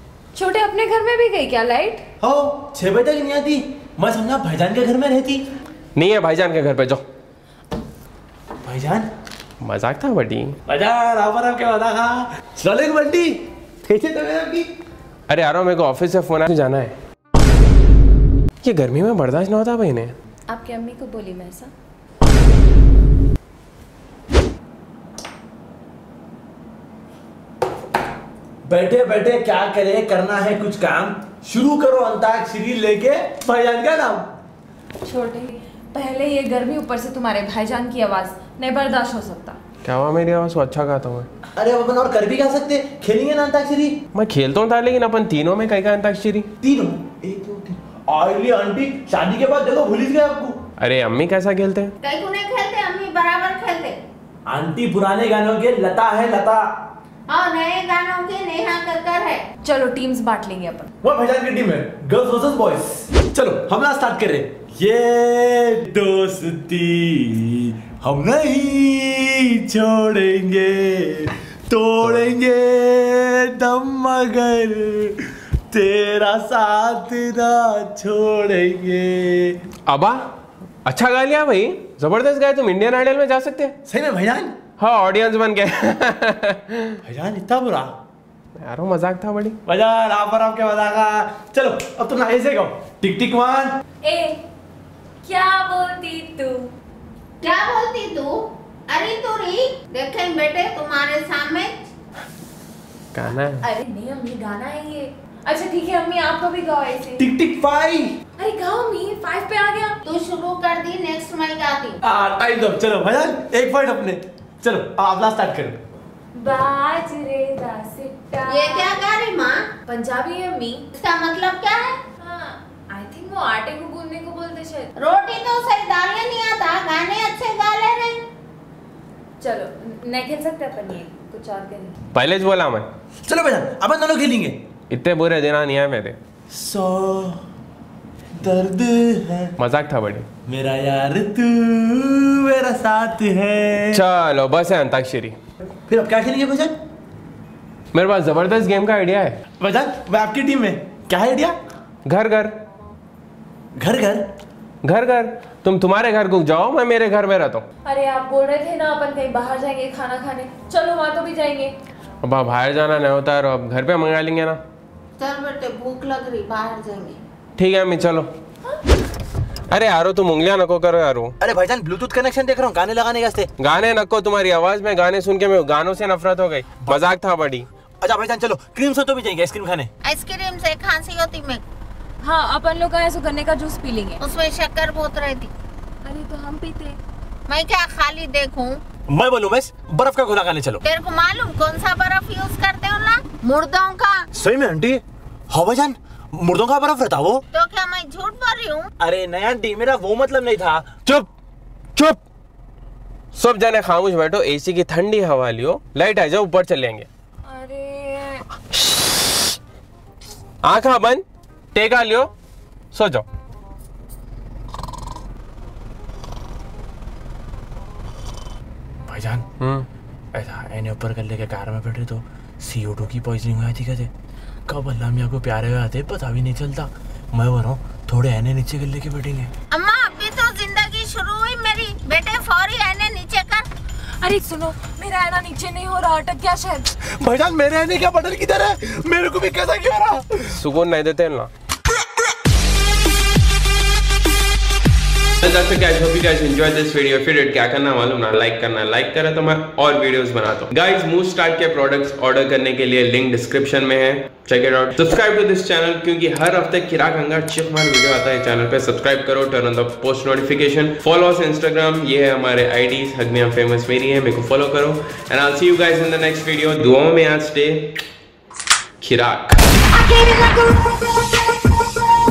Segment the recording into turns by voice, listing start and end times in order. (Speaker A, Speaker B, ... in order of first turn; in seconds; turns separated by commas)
Speaker A: 0.3-2.0, Speaker B: 2.2-5.4, Speaker C: 5.9-7.0, Speaker B: 8.6-9.1, Speaker C: 9.6-10.6, Speaker B: 10.7-14.7, Speaker C: 15.3-16.9, Speaker C: 18.6-20.1, Speaker A: 20.5-21.7, Speaker B: 28.6-34.3, Speaker A: 35.0-39.6, Speaker C: 39.8-41.3, Speaker B: 41.5-44.0, Speaker C: 44.1-46.5, Speaker B: 46.6-50.6, Speaker C: 50.8-51.9, Speaker D: 52.0-54.0, Speaker B: 54.5-56.7, Speaker D: 57.3-59.4, Speaker A: 59.6-60.9, Speaker B: 61.0-79.6, Speaker C: 79.9-80.2, Speaker C: 80.8-83.7, Speaker B: 83.8-84.5, Speaker C: 84.8-87.0, Speaker B: 87.0-87.9, Speaker C: 88.6-89.6, Speaker B: 89.7-93.8, Speaker A: 94.0-94.4, Speaker A: 95.2-96.7, Speaker D: 97.4-101.8, Speaker C: 103.1-103.6, Speaker A: 103.6-107.2, Speaker B: 107.2-108.1, Speaker A: 108.4-110.0, Speaker D: 110.0-112.0, Speaker B: 112.0-115.8, Speaker A: 116.3-119.1, Speaker D: 118.5-119.7, Speaker A: 119.8-120.8, Speaker D: 120.9-122.0, Speaker A: 122.2-124.9, Speaker D: 125.0-128.2, Speaker A: 129.4-132.0, Speaker C: 132.1-132.9, Speaker B: 133.2-134.6, Speaker C: 134.9-136.2, Speaker B: 136.5-137.4, Speaker B: 138.3-139.5, Speaker C: 139.6-140.3, Speaker B: 140.5-144.0, Speaker C: 143.9-145.3, Speaker B: 145.9-146.7, Speaker C: 147.9-149.3, Speaker B: 149.6-151.6, Speaker C: 152.1-152.5, Speaker B: 153.8-154.3, Speaker C: 154.8-157.6, Speaker A: 157.8-161.7, Speaker C: 162.2-164.6, Speaker D: 165.2-167.2, Speaker C: 167.6-168.3, Speaker C: 169.7-171.3, Speaker B: 171.4-173.5, Speaker C: 173.6-177.7, Speaker B: 178.0-179.9, Speaker D: 180.0-181.6, Speaker A: 182.2-184.2, Speaker D: 184.2-185.5, Speaker A: 186.0-187.0, Speaker D: 187.5-188.8, Speaker B: 189.1-190.8, Speaker D: 190.8-194.2, Speaker B: 194.3-197.4, Speaker D: 197.5-198.9, Speaker B: 199.0-201.3, Speaker C: 201.9-202.2, Speaker C: 203.3-207.1, Speaker A: 207.4-208.4, Speaker C: 210.6-212.3, Speaker C: 212.9-213.2, Speaker B: 219.1-219.4, Speaker C: 219.6-219.9, Speaker B: 220.3-224.1, Speaker B: 224.7-229.5, Speaker D: 229.7-233.7, Speaker A: 234.2-236.9, Speaker B: 237.0-240.5, Speaker C: 240.5-241.5, Speaker C: 245.4-267.9, Speaker C: 269.0-269.6, Speaker D: 270.0-270.9